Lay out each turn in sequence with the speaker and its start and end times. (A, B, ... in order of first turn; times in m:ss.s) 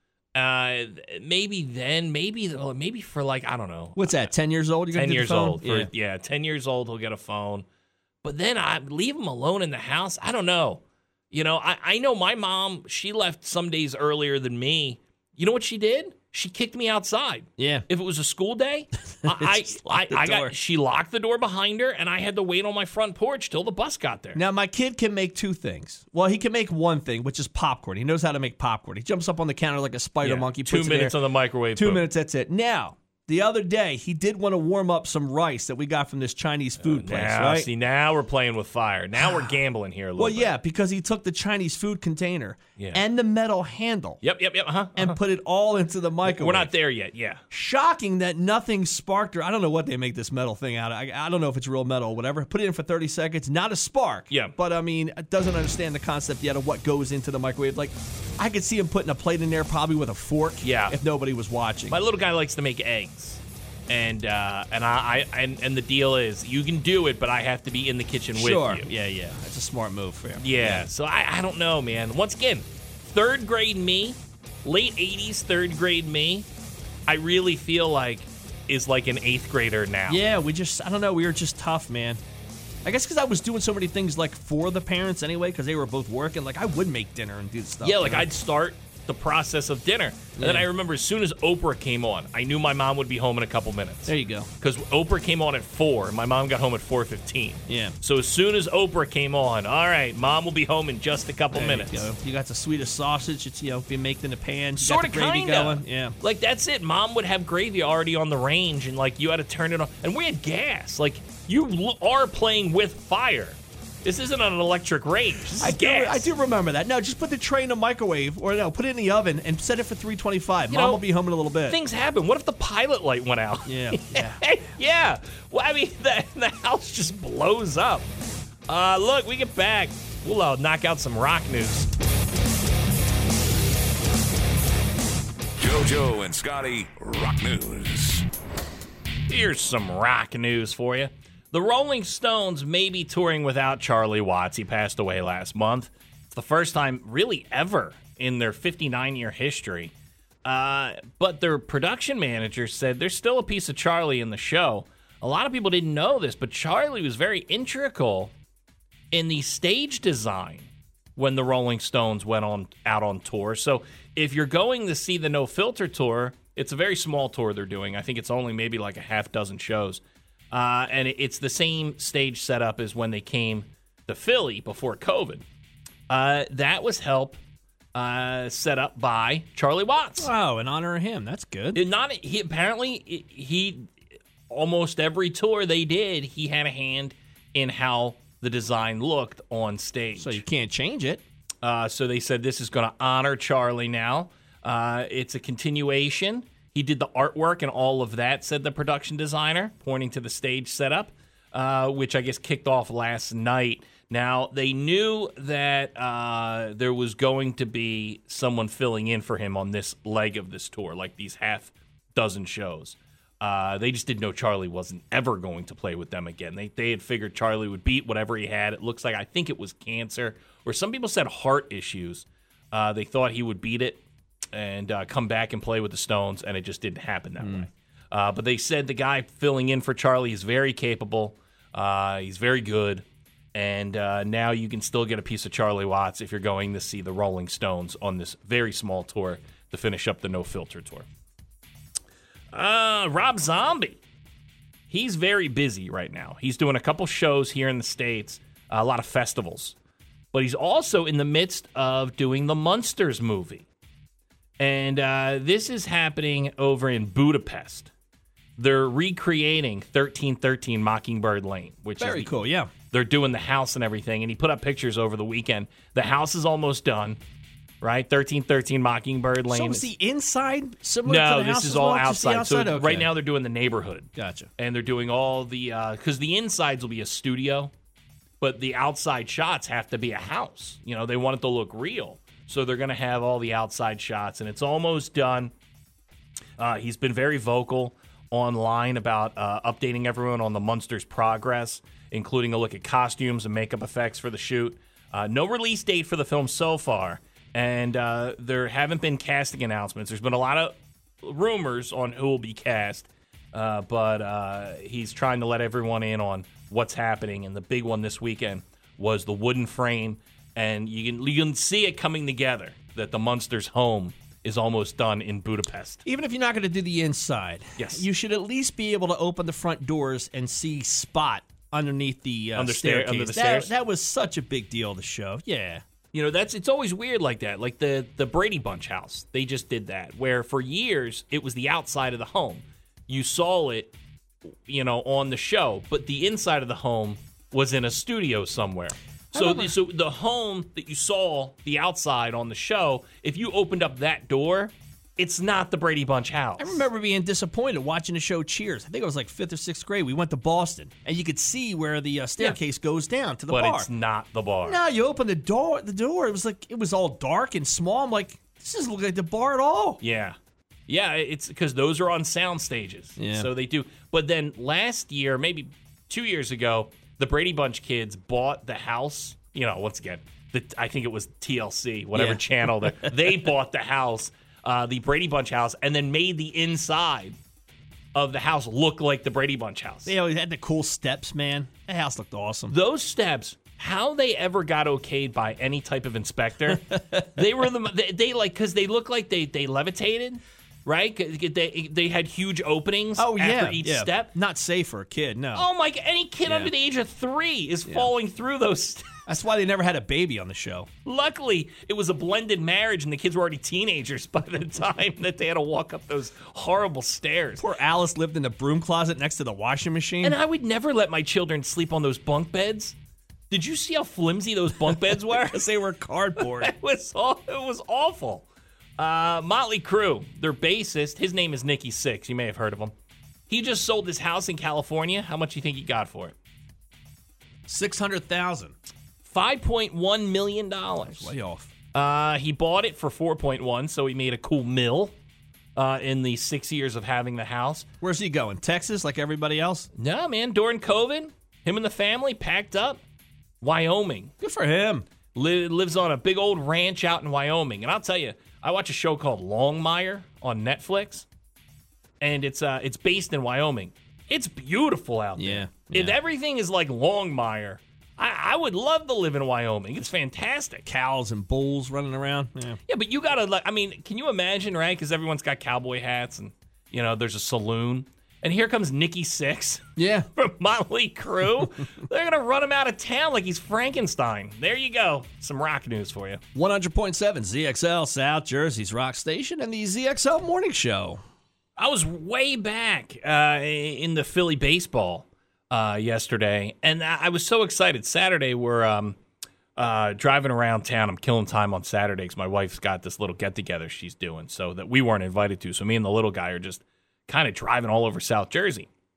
0:00.3-0:04.3 A
0:04.0-0:05.9 B
0:04.9-0:07.6 A
0:08.2-0:24.4 A
0:17.6-0:17.8 B
0:19.2-0:20.5 B
0:24.3-0:31.2 B
0:30.2-0:32.0 A
0:31.7-0:37.7 B
0:36.8-0:40.5 A
0:39.2-0:39.6 B
0:40.2-0:44.2 B
0:42.8-0:43.0 A
0:44.2-0:45.2 A
0:44.9-0:46.7 B
0:46.2-0:47.4 A
0:47.5-1:01.9 B
1:00.6-1:01.0 A
1:01.9-1:08.9 A
1:08.3-1:10.9 B
1:10.4-1:16.4 A
1:17.1-1:20.2 A
1:20.1-1:22.2 B
1:22.8-1:28.2 B
1:27.8-1:42.1 A
1:30.4-1:30.7 B
1:34.1-1:34.5 B
1:37.7-1:37.9 B
1:41.5-1:46.1 B
1:44.8-1:56.3 A
1:55.6-2:01.8 B
2:00.7-2:01.0 A
2:01.7-2:08.1 A
2:03.6-2:04.4 B
2:08.7-2:11.9 A
2:15.6-2:18.2 C
2:19.3-2:29.9 A
2:30.4-2:38.3 A
2:39.1-2:55.4 A
2:56.1-2:57.4 A
2:57.9-3:00.3 A
3:00.2-3:01.8 B
3:01.7-3:03.9 A
3:04.5-3:10.4 A
3:10.2-3:11.2 B
3:11.6-3:44.0 A
3:44.5-4:01.1 A
3:47.4-3:47.7 B
4:02.5-4:04.0 A
4:04.9-4:09.8 A
4:10.3-4:13.6 A
4:14.6-4:17.9 A
4:18.6-4:22.3 A
4:22.0-4:22.7 B
4:22.9-4:27.2 A
4:27.8-4:29.9 A
4:29.5-4:33.1 B
4:31.0-4:37.7 A
4:34.2-4:34.5 B
4:38.4-4:45.5 A
4:46.6-5:16.0 A
5:16.0-5:25.8 B
5:17.8-5:18.0 A
5:22.6-5:23.7 A
5:26.1-5:33.9 A
5:34.6-5:46.8 A
5:39.3-5:39.7 B
5:46.6-5:53.9 B
5:53.5-5:54.8 A
5:54.6-6:00.0 B
6:00.0-6:00.4 A
6:00.9-6:17.4 A
6:03.2-6:03.5 B
6:12.1-6:13.1 B
6:18.1-6:20.1 A
6:20.0-6:22.7 B
6:22.7-6:34.3 A
6:26.7-6:27.5 B
6:33.2-6:35.7 B
6:35.5-6:39.2 A
6:36.4-6:36.7 B
6:37.8-6:38.1 B
6:39.2-6:40.9 B
6:41.0-6:47.6 A
6:47.6-6:50.4 B
6:50.2-6:53.0 A
6:53.5-6:55.7 A
6:55.3-6:56.7 B
6:56.4-6:58.5 A
6:59.0-7:02.9 A
7:03.5-7:06.3 A
7:07.7-7:08.7 B
7:09.2-7:11.3 A
7:11.0-7:11.7 B
7:11.9-7:15.1 A
7:15.8-7:17.9 A
7:18.0-7:19.9 B
7:20.0-7:23.0 A
7:23.6-7:24.3 A
7:24.4-7:25.0 B
7:25.3-7:31.2 A
7:32.2-7:40.9 A
7:35.4-7:36.2 B
7:40.8-7:42.8 B
7:42.9-7:56.4 A
7:50.0-7:50.3 B
7:56.5-8:01.2 B
8:01.8-8:09.2 A
8:09.8-8:18.9 A